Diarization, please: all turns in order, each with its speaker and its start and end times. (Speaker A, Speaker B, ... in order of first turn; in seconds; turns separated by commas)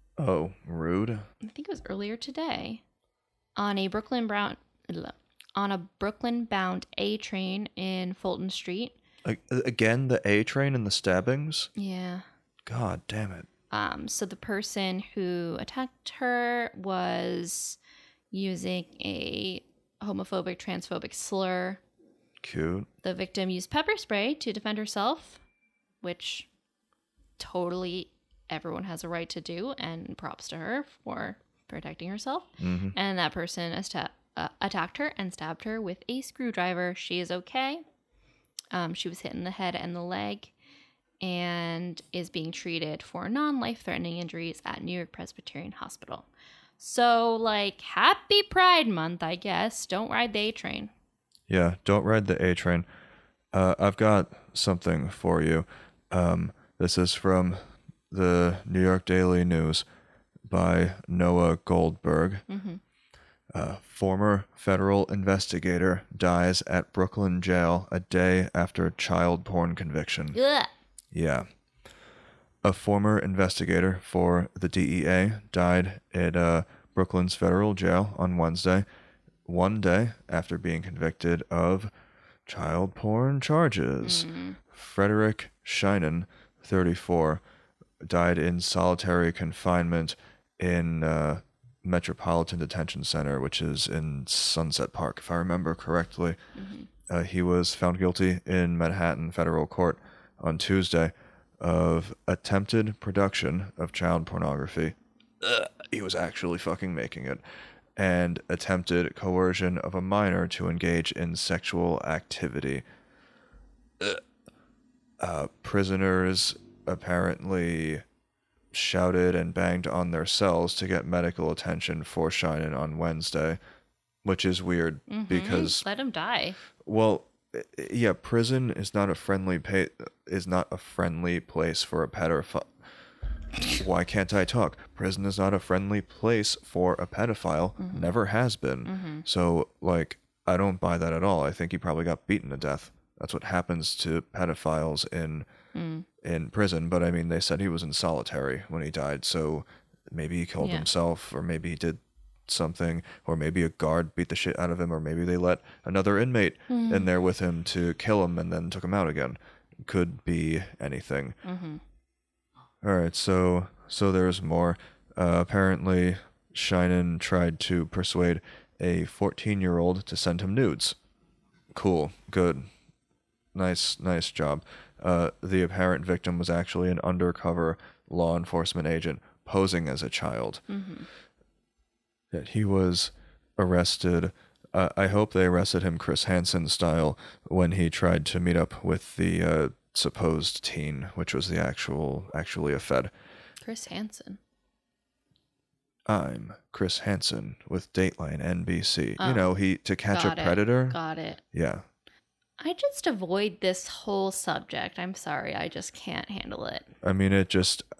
Speaker A: 0.2-1.3, Speaker B: 1.4-2.8, Speaker B: 3.6-9.0, Speaker A: 9.2-11.7, Speaker B: 11.8-12.2, Speaker A: 12.7-13.5, Speaker B: 13.7-17.8, Speaker B: 18.3-21.8, Speaker A: 22.4-22.9, Speaker B: 23.0-25.4, Speaker B: 26.0-26.5, Speaker B: 27.4-37.8, Speaker A: 32.6-33.0, Speaker B: 38.7-40.5, Speaker B: 41.2-46.3, Speaker B: 46.8-50.9, Speaker A: 51.5-52.9, Speaker A: 53.5-57.6, Speaker A: 58.1-59.8, Speaker A: 60.5-62.5, Speaker B: 62.5-62.8, Speaker A: 63.5-70.4, Speaker B: 70.3-70.7, Speaker A: 71.1-71.5, Speaker A: 72.6-78.9, Speaker A: 79.5-81.9, Speaker A: 82.5-87.4, Speaker B: 84.0-84.6, Speaker A: 88.0-96.4, Speaker B: 96.6-96.9, Speaker A: 97.1-107.4, Speaker A: 108.0-112.8, Speaker A: 115.2-118.0, Speaker A: 118.7-123.6, Speaker A: 124.2-125.8, Speaker B: 125.1-126.6, Speaker A: 126.8-132.7, Speaker A: 133.7-145.5, Speaker B: 137.8-138.1, Speaker B: 138.8-139.2, Speaker B: 145.7-146.1, Speaker A: 146.2-161.4, Speaker B: 150.6-150.9, Speaker B: 156.7-157.1, Speaker B: 161.4-161.8, Speaker A: 162.8-170.9, Speaker A: 171.7-172.7, Speaker A: 173.6-180.6, Speaker B: 180.7-181.1, Speaker A: 182.3-193.1, Speaker B: 193.6-194.4, Speaker A: 196.1-201.0, Speaker B: 199.2-199.5, Speaker B: 200.1-201.4, Speaker A: 201.5-201.8, Speaker B: 202.6-206.9, Speaker A: 207.0-207.8